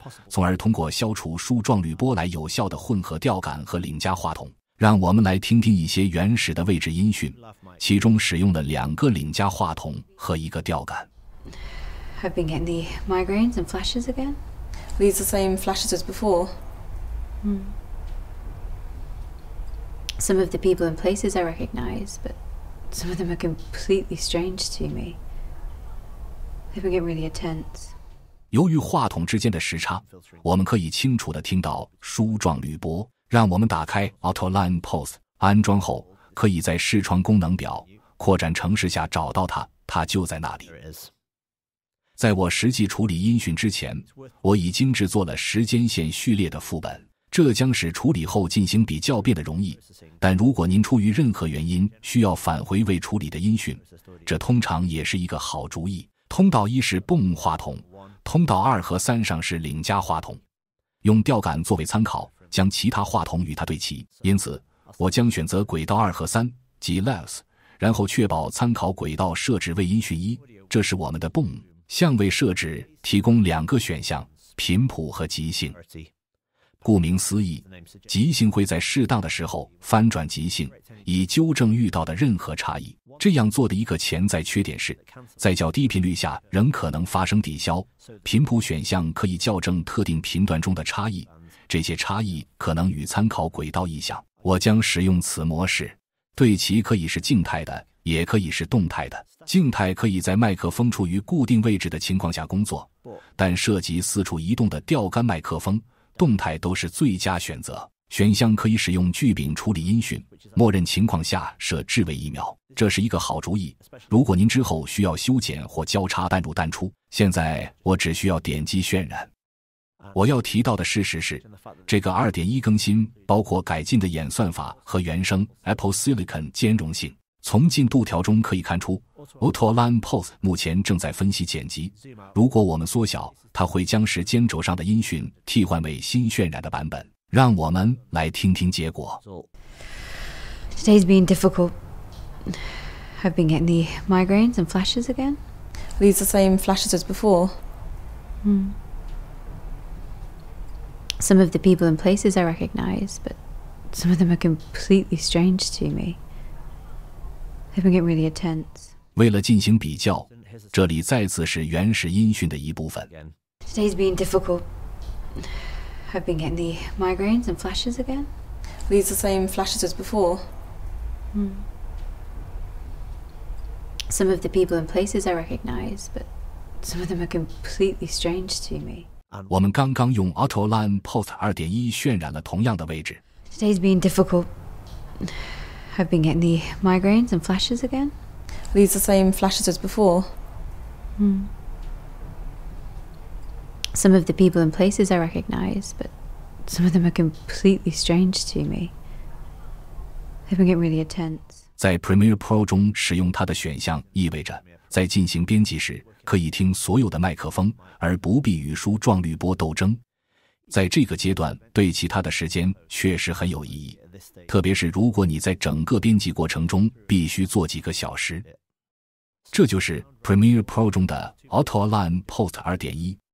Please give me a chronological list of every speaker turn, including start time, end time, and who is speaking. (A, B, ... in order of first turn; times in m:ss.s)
0:00.3-0:11.1 A
0:12.1-0:14.4 B
0:15.0-0:16.6 C
0:17.4-0:17.8 B
0:20.2-0:22.4 B
0:22.9-0:25.2 B
0:26.7-0:27.9 B
0:28.5-0:40.7 A
0:42.2-1:00.4 A
1:01.0-1:15.8 A
1:16.8-1:59.3 A
2:00.1-2:19.2 A
2:20.7-2:21.8 B
2:23.1-2:25.4 B
2:26.0-2:27.6 C
2:28.4-2:28.8 B
2:31.2-2:33.4 B
2:33.9-2:36.2 B
2:37.7-2:38.9 B
2:39.1-2:43.1 A
2:43.6-2:44.6 B
2:46.0-2:48.3 B
2:48.9-2:50.5 C
2:51.3-2:51.7 B
2:54.1-2:56.3 B
2:56.8-2:59.1 B
2:59.5-3:03.2 A
3:03.5-3:04.5 B
3:05.2-3:08.2 B
3:08.7-3:10.4 C
3:11.2-3:11.5 B
3:13.9-3:18.9 B
3:20.5-3:21.6 B
3:21.8-3:30.0 A
3:30.7-3:38.4 A
3:39.5-3:43.2 A